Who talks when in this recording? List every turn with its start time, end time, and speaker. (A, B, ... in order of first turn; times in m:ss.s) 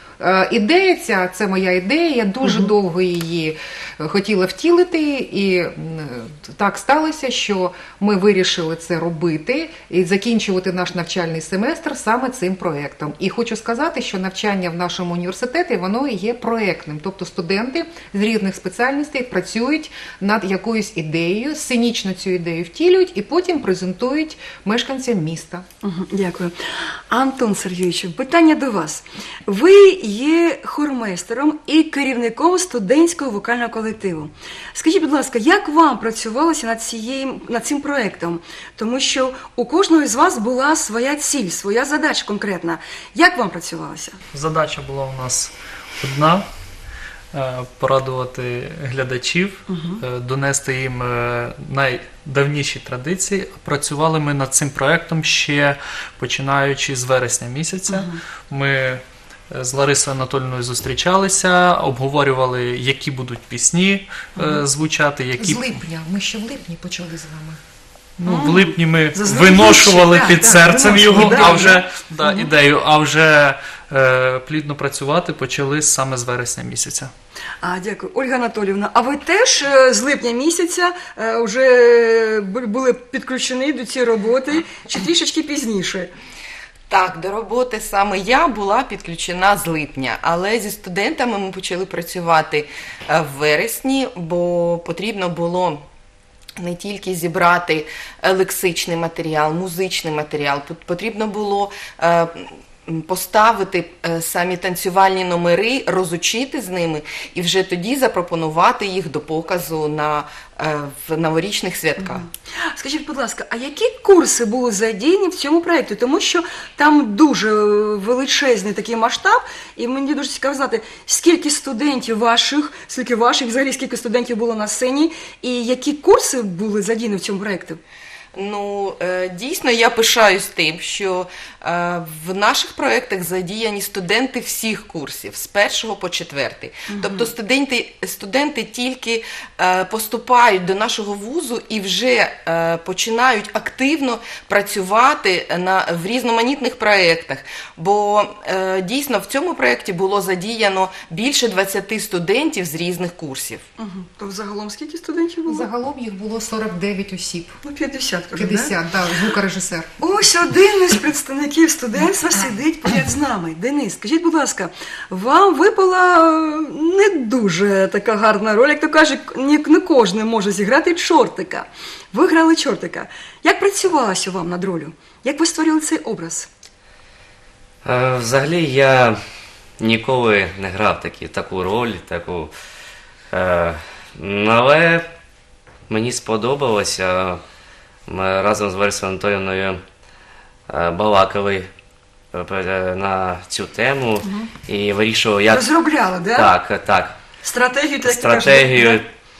0:00.2-0:25.6 A
0:02.4-0:02.7 B
0:25.8-0:44.2 B
0:44.3-0:46.4 C
0:47.3-1:05.8 C
0:49.7-0:50.0 B
0:57.9-0:58.2 B
1:05.4-1:07.6 A
1:08.2-1:17.1 C
1:08.3-1:12.5 B
1:17.6-1:26.1 B
1:26.9-1:35.8 D
1:36.6-1:52.3 D
1:52.0-2:07.8 B
2:08.4-2:33.6 D
2:16.9-2:17.3 B
2:33.8-2:35.7 B
2:35.5-2:37.6 A
2:37.6-2:38.8 B
2:38.4-2:39.9 A
2:40.0-2:56.5 B
2:57.8-2:59.2 E
2:59.8-3:02.5 E
3:03.3-3:05.1 E
3:05.9-3:07.4 E
3:08.1-3:09.8 E
3:10.7-3:11.7 E
3:12.3-3:15.7 E
3:15.5-3:16.5 B
3:16.4-3:17.2 E
3:17.4-3:19.0 B
3:18.0-3:19.1 E